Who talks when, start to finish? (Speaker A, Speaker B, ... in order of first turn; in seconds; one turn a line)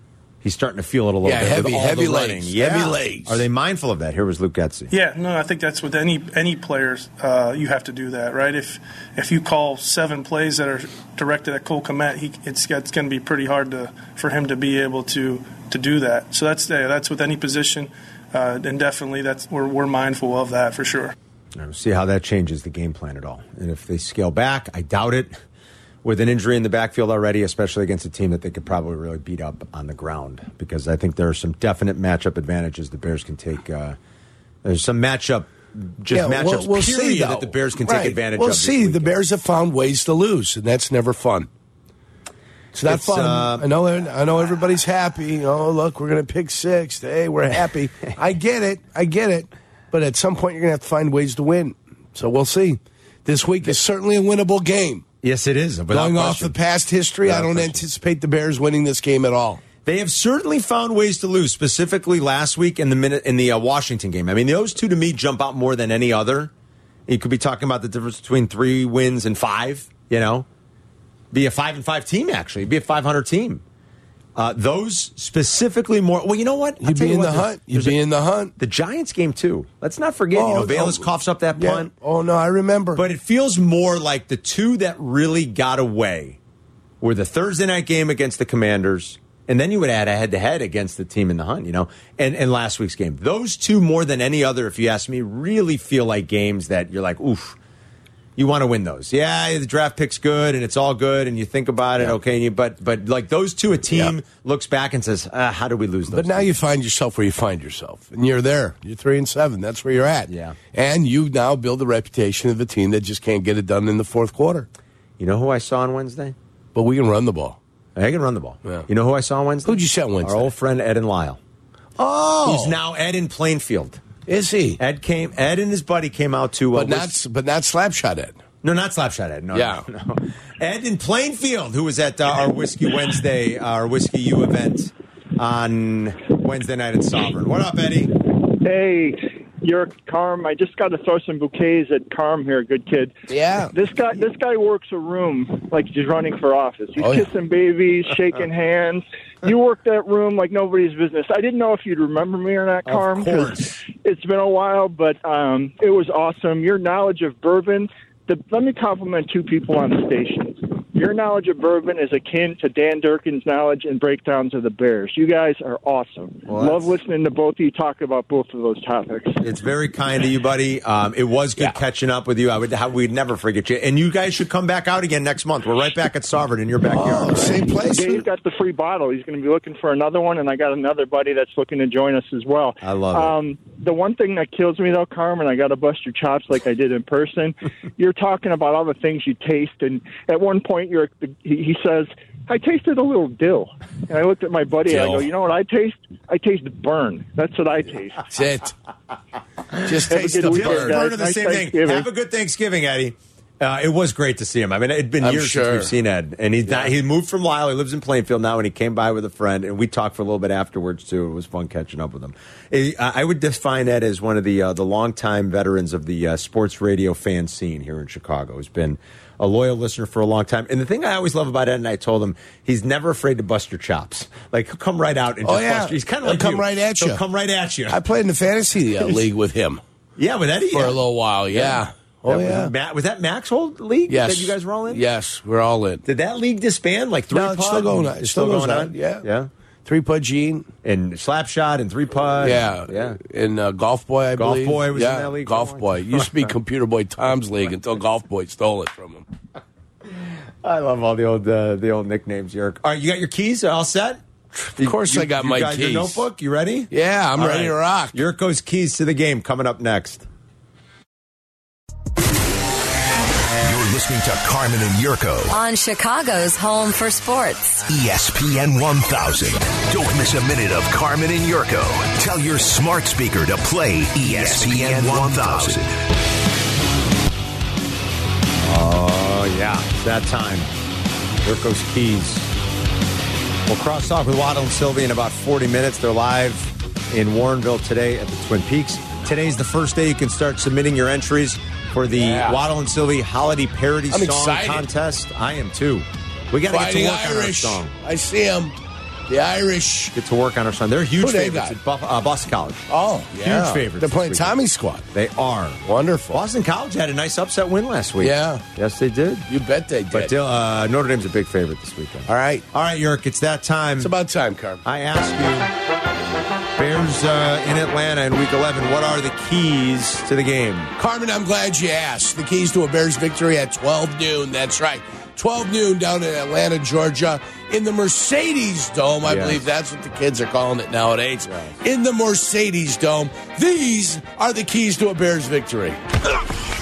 Speaker A: 0.4-4.9
Speaker B: 1.2-3.4
Speaker C: 4.9-21.1
Speaker A: 21.6-25.4
Speaker A: 26.0-34.0
Speaker A: 34.6-39.1
Speaker B: 36.1-41.5
Speaker B: 42.7-55.0
Speaker A: 42.9-43.7
Speaker A: 55.2-56.5
Speaker B: 55.9-59.6
Speaker A: 57.2-57.8
Speaker A: 59.9-66.5
Speaker A: 67.1-70.5
Speaker A: 71.3-73.6
Speaker A: 74.4-78.0
Speaker B: 76.8-78.5
Speaker A: 78.6-81.9
Speaker B: 80.3-83.0
Speaker A: 83.0-86.4
Speaker A: 87.0-97.6
Speaker A: 98.4-106.5
Speaker B: 106.1-114.7
Speaker A: 110.3-110.6
Speaker A: 115.2-116.3
Speaker B: 116.8-117.6
Speaker A: 118.0-121.4
Speaker B: 119.6-120.5
Speaker B: 122.0-122.8
Speaker A: 122.4-124.0
Speaker B: 124.3-124.8
Speaker A: 124.8-127.1
Speaker B: 126.8-128.4
Speaker A: 128.6-138.1
Speaker B: 129.5-129.8
Speaker D: 138.5-169.4
Speaker B: 143.3-143.7
Speaker B: 147.0-147.2
Speaker A: 152.9-153.8
Speaker A: 166.5-166.9
Speaker A: 169.4-177.7
Speaker B: 176.9-178.3
Speaker D: 177.9-198.2
Speaker A: 182.8-183.4
Speaker B: 194.9-195.3
Speaker B: 198.3-198.7
Speaker B: 199.8-201.0
Speaker D: 200.1-202.1
Speaker A: 200.4-228.0
Speaker B: 205.2-205.9
Speaker B: 225.4-227.2
Speaker B: 227.9-229.8
Speaker A: 229.0-229.3
Speaker A: 230.2-235.0
Speaker B: 230.7-232.7
Speaker B: 234.1-236.0
Speaker A: 236.1-239.5
Speaker B: 237.3-239.3
Speaker B: 239.8-240.7
Speaker A: 240.8-243.2
Speaker B: 242.4-249.3
Speaker A: 244.3-246.6
Speaker A: 250.1-254.2
Speaker B: 254.6-256.2
Speaker A: 254.8-260.3
Speaker B: 256.9-258.2
Speaker E: 263.6-265.5
Speaker F: 265.5-267.9
Speaker E: 267.9-276.0
Speaker A: 278.6-280.7
Speaker A: 281.4-282.5
Speaker A: 283.7-297.9
Speaker B: 292.1-292.6
Speaker B: 294.1-294.9
Speaker B: 296.7-298.8
Speaker B: 299.3-300.1
Speaker A: 300.1-304.6
Speaker B: 301.2-301.8
Speaker B: 302.9-305.0
Speaker A: 305.1-309.5
Speaker B: 305.9-306.4
Speaker B: 308.2-308.6
Speaker B: 309.5-310.3
Speaker A: 310.1-314.1
Speaker B: 312.3-312.6
Speaker B: 314.0-314.8
Speaker A: 314.8-315.7
Speaker A: 316.8-320.9
Speaker B: 321.0-336.0
Speaker A: 329.2-329.7
Speaker A: 331.5-331.8